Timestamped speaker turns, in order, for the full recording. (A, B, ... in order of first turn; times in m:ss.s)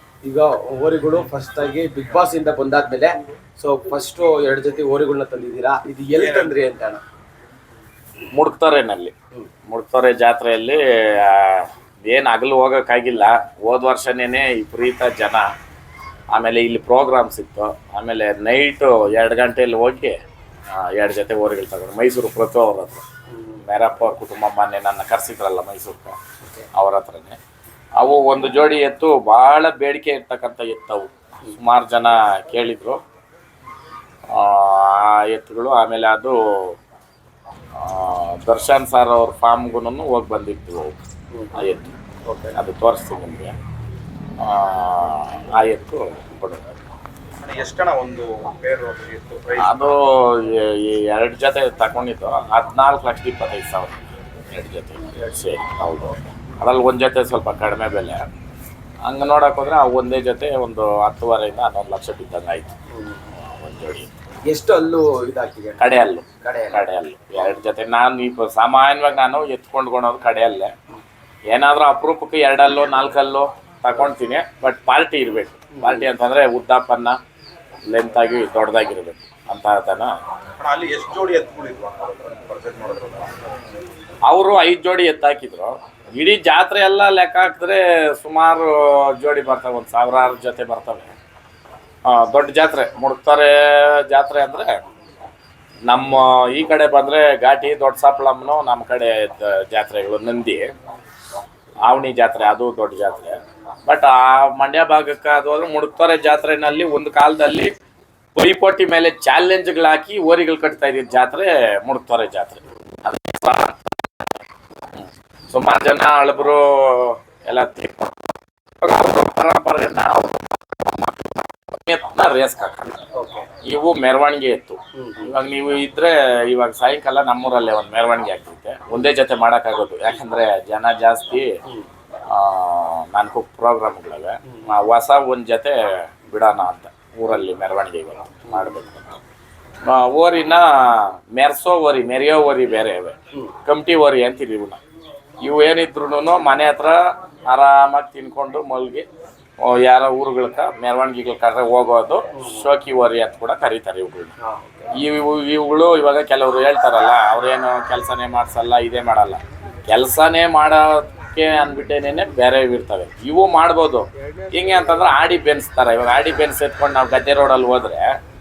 0:00.2-0:07.0 A
0:06.1-0:06.6 B
0:08.3-0:09.1 C
0:09.7-0:15.5 C
0:16.3-0:20.1 C
0:20.7-0:23.0 C
0:23.3-0:23.6 A
0:23.6-0:26.2 C
0:26.7-0:27.4 C
0:28.0-0:33.0 C
0:34.3-0:36.8 C
0:37.8-0:41.0 C
0:41.3-0:41.6 A
0:41.5-0:41.9 C
0:42.2-0:42.6 A
0:42.5-0:43.5 C
0:44.4-0:46.6 C
0:47.4-0:49.9 B
0:49.6-0:54.0 C
0:54.5-0:58.2 C
0:59.0-1:02.7 C
1:02.9-1:03.2 A
1:03.4-1:04.1 C
1:04.5-1:06.8 A
1:05.8-1:10.7 C
1:11.5-1:17.2 C
1:15.7-1:16.0 A
1:17.9-1:20.1 C
1:20.6-1:23.4 B
1:24.2-1:31.1 C
1:32.0-1:34.7 C
1:35.9-1:40.7 C
1:41.8-1:47.7 C
1:48.4-1:53.8 C
1:55.0-2:00.4 C
2:01.7-2:03.0 C
2:03.1-2:03.5 A
2:03.6-2:11.5 C
2:05.0-2:05.3 A
2:12.3-2:19.2 C
2:19.8-2:24.8 C
2:25.4-2:29.0 C
2:29.6-2:34.3 C
2:32.3-2:32.6 A
2:34.4-2:34.9 A
2:35.0-2:48.0 C